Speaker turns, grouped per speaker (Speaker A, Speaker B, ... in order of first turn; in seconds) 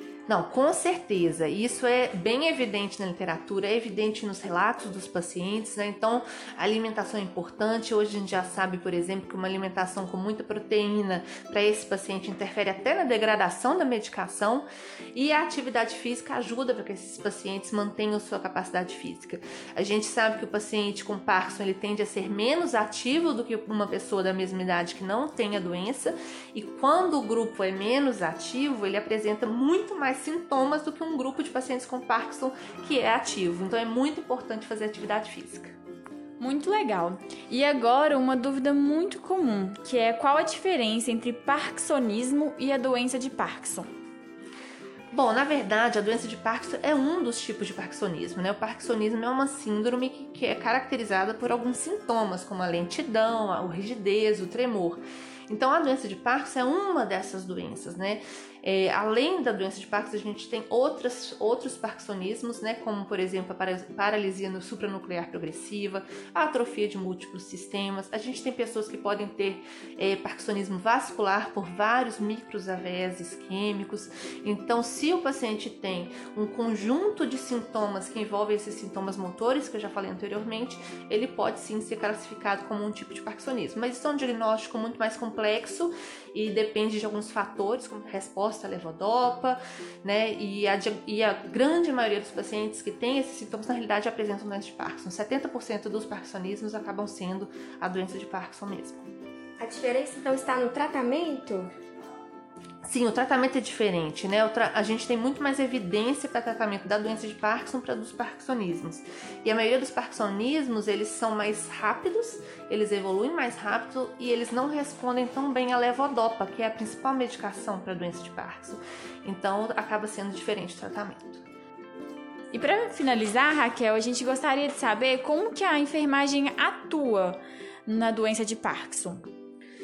Speaker A: 0.3-35.8, 45.1-99.0, 102.8-121.4
Speaker B: 36.4-43.9, 122.5-129.2
Speaker C: 99.6-101.7